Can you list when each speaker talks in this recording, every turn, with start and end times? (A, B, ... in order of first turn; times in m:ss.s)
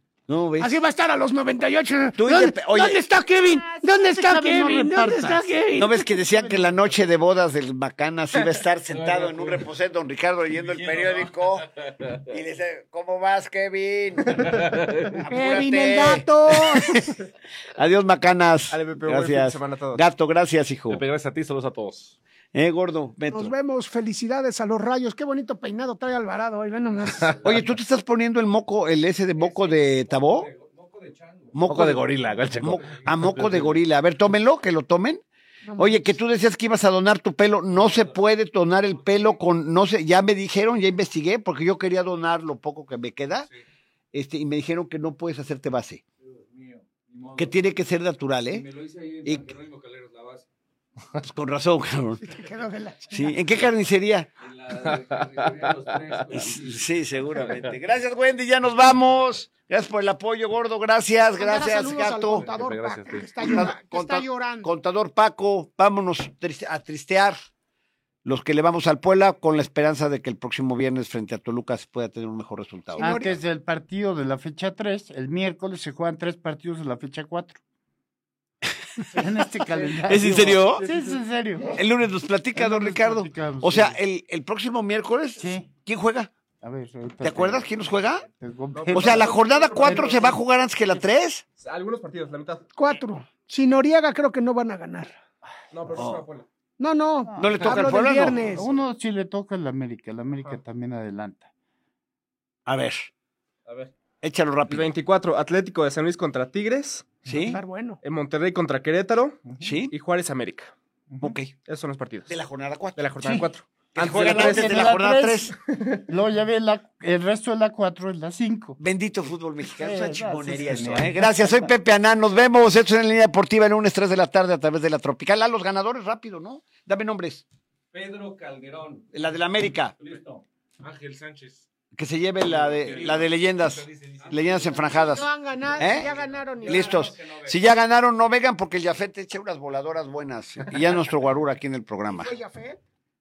0:00.3-0:00.7 A
0:00.6-0:06.1 B
0:02.2-0:03.0 A
0:03.6-0:05.5 C
0:05.8-0:14.6 A
0:08.9-0:09.7 D
0:10.5-0:12.3 D
0:14.4-0:15.2 D
0:15.1-0:17.1 A
0:15.3-0:17.1 B
0:17.7-0:21.0 A
0:18.7-0:20.0 E
0:20.9-0:22.2 D
0:22.5-0:23.5 A
0:23.3-0:27.4 B
0:27.2-0:27.5 F
0:27.4-0:30.5 A
0:29.4-0:33.6 F
0:31.5-0:35.2 A
0:31.7-0:33.7 D
0:35.7-0:36.0 B
0:35.8-0:43.5 A
0:37.7-0:38.3 F
0:38.8-0:39.4 F
0:44.1-0:46.0 A
0:46.2-0:47.6 F
0:47.4-0:48.7 A
0:48.5-0:50.5 F
0:49.2-0:49.5 A
0:51.2-0:52.3 A
0:52.2-0:53.4 B
0:53.1-0:54.3 A
0:54.4-0:57.4 F
0:55.3-0:56.0 D
0:56.5-1:02.4 A
1:01.4-1:04.7 B
1:02.4-1:03.4 D
1:03.4-1:07.4 A
1:08.2-1:13.3 A
1:12.9-1:13.4 B
1:13.0-1:17.6 C
1:19.1-1:21.8 C
1:20.0-1:20.8 A
1:20.8-1:21.1 E
1:21.7-1:26.3 A
1:22.6-1:24.0 C
1:25.4-1:25.7 C
1:26.6-1:27.7 C
1:27.2-1:28.2 A
1:28.3-1:29.3 C
1:28.7-1:30.4 E
1:28.9-1:31.4 A
1:29.8-1:30.3 C
1:31.6-1:32.7 E
1:32.8-1:35.2 B
1:35.7-1:36.5 E
1:36.0-1:36.3 A
1:36.8-1:38.7 B
1:37.4-1:38.4 A
1:38.5-1:41.5 C
1:42.7-1:43.1 A
1:44.2-1:44.9 A
1:44.7-1:47.2 E
1:47.3-1:47.6 A
1:47.4-1:48.0 B
1:48.0-1:50.7 E
1:49.6-1:49.9 A
1:51.2-1:51.5 A
1:51.7-1:52.3 E
1:52.3-1:53.3 A
1:53.0-1:54.8 E
1:54.0-1:55.6 A
1:54.3-1:55.6 C
1:56.1-1:58.8 C
1:58.8-2:07.4 A
1:59.8-2:01.7 C
2:07.9-2:09.4 F
2:09.1-2:10.0 A
2:09.9-2:10.4 F
2:10.8-2:11.7 D
2:11.9-2:22.3 A
2:12.6-2:14.9 D
2:12.7-2:13.3 F
2:14.1-2:17.6 F
2:15.0-2:17.1 B
2:22.1-2:22.8 B